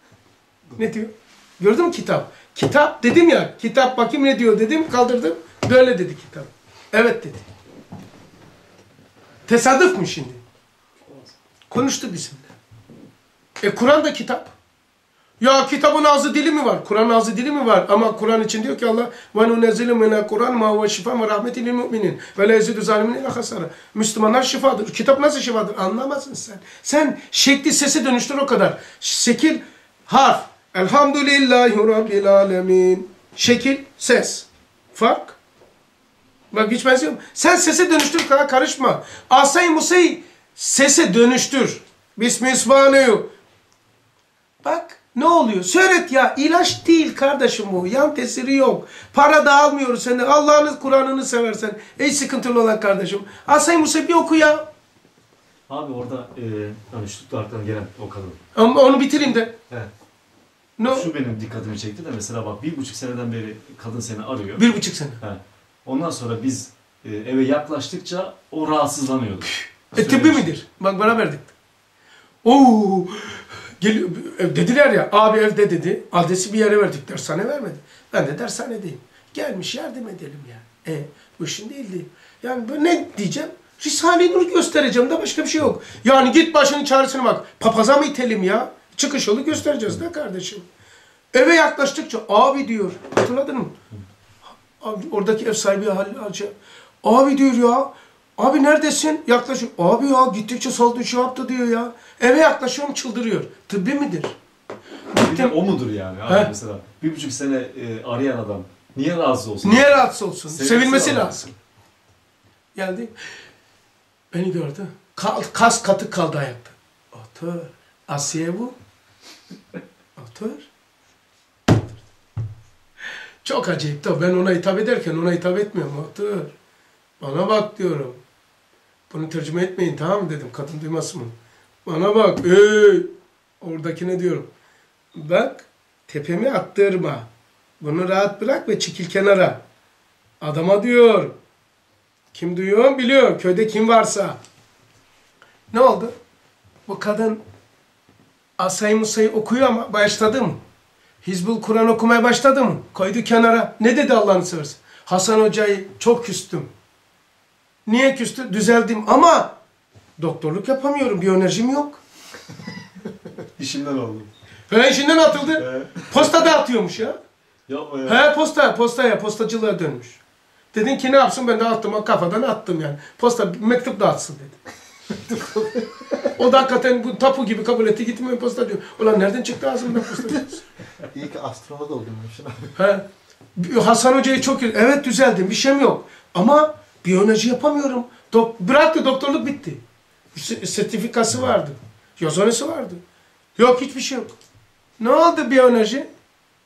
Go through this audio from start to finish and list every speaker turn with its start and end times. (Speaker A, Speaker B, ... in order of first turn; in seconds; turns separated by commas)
Speaker A: 0.8-7.4, Speaker A: 9.5-10.4, Speaker A: 11.7-12.5, Speaker A: 13.6-14.5, Speaker A: 15.4-35.4, Speaker A: 36.5-43.3, Speaker A: 44.6-54.7, Speaker B: 55.7-58.4, Speaker A: 58.5-59.5, Speaker A: 60.8-61.1, Speaker B: 60.9-70.5, Speaker A: 64.6-65.2, Speaker A: 69.9-71.5, Speaker A: 72.4-90.6, Speaker A: 91.3-93.7, Speaker A: 94.8-96.5, Speaker A: 97.0-104.3, Speaker A: 105.1-105.5, Speaker B: 105.2-111.4, Speaker A: 109.6-111.5, Speaker A: 112.7-113.1, Speaker A: 114.3-118.7, Speaker A: 120.2-120.7, Speaker A: 123.4-126.5, Speaker A: 127.2-128.2, Speaker A: 129.1-131.3, Speaker A: 131.8-133.1, Speaker A: 133.6-134.5, Speaker A: 135.1-137.3, Speaker A: 137.8-139.6, Speaker A: 140.4-141.3, Speaker A: 142.3-144.4, Speaker A: 145.7-146.1, Speaker A: 146.9-147.4, Speaker A: 148.6-150.6, Speaker A: 151.2-156.7, Speaker A: 157.8-159.5, Speaker A: 160.2-162.0, Speaker B: 163.6-164.3, Speaker A: 164.7-167.2, Speaker B: 165.6-166.5, Speaker B: 167.7-168.3, Speaker A: 168.1-170.2, Speaker A: 170.7-174.6, Speaker C: 175.1-176.3, Speaker A: 176.3-180.6, Speaker C: 181.0-182.7, Speaker A: 182.8-183.0, Speaker A: 183.6-189.8, Speaker A: 190.3-193.0, Speaker A: 193.6-194.3, Speaker A: 195.0-196.1